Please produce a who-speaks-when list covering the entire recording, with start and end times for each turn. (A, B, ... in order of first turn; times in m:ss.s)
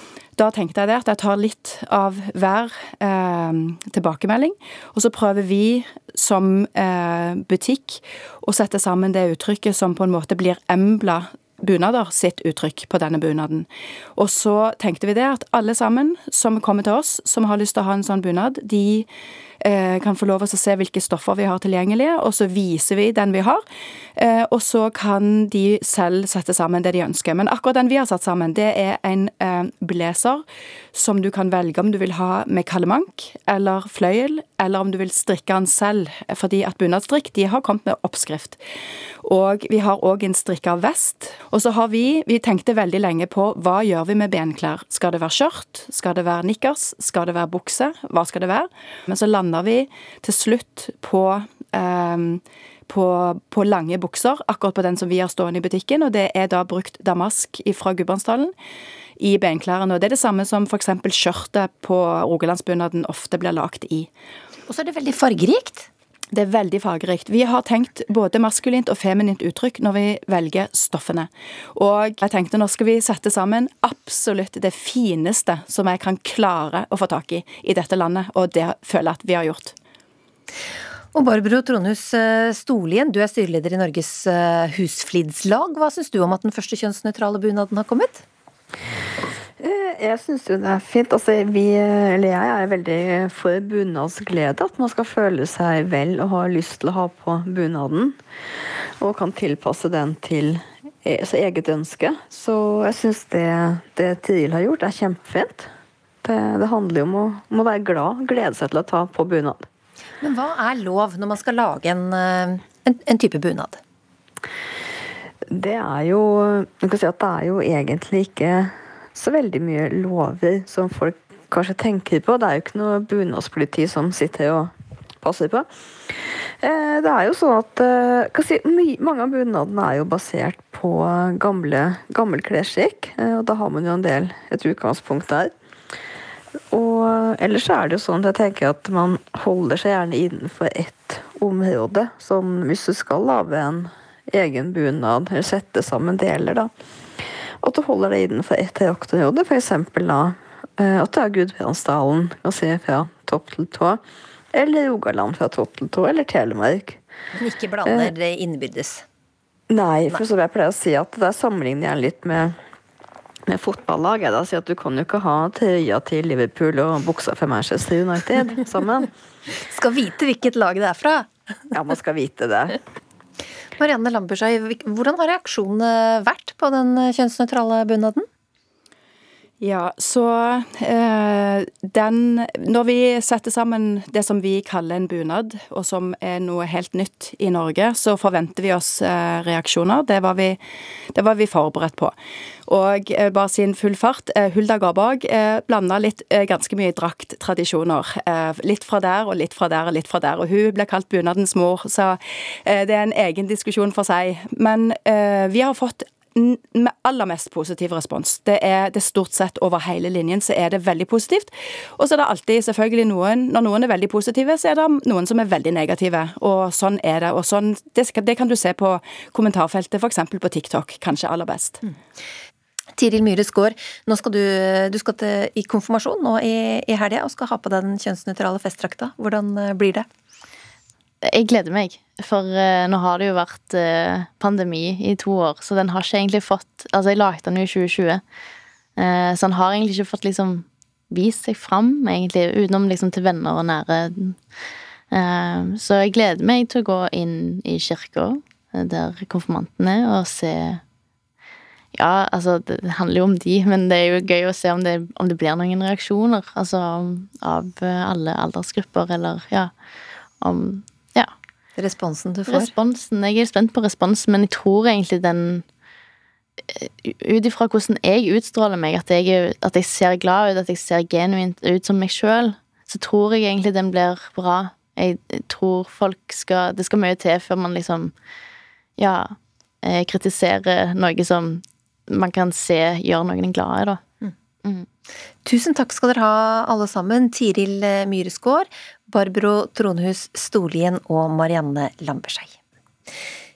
0:00.3-0:19.1 A
0:19.6-0:23.6 A
0:24.1-0:38.6 A
0:39.2-0:58.5 A
0:59.2-1:04.1 A
1:04.7-1:05.9 B
1:06.3-1:19.8 A
1:21.1-1:28.2 B
1:29.6-1:38.2 C
1:39.0-1:45.7 C
1:46.2-1:49.6 C
1:50.2-1:53.8 B
1:55.5-2:04.7 C
2:05.2-2:05.7 C
2:06.6-2:15.5 C
2:16.7-2:26.7 C
2:27.6-2:34.0 C
2:34.5-2:37.0 C
2:37.4-2:39.0 B
2:37.8-2:38.1 C
2:39.7-2:42.6 C
2:43.5-2:49.1 C
2:49.6-2:51.3 B
2:51.7-2:52.8 C
2:53.8-2:58.3 B
2:59.6-3:10.6 A
3:11.1-3:12.1 A
3:12.7-3:41.8 A
3:43.0-3:50.1 B
3:51.2-3:58.2 D
3:59.0-4:04.4 D
4:05.1-4:10.8 D
4:11.9-4:19.7 D
4:20.4-4:21.3 D
4:21.8-4:22.7 B
4:22.5-4:25.6 D
4:26.7-4:38.1 D
4:39.0-4:44.0 D
4:45.4-4:52.5 B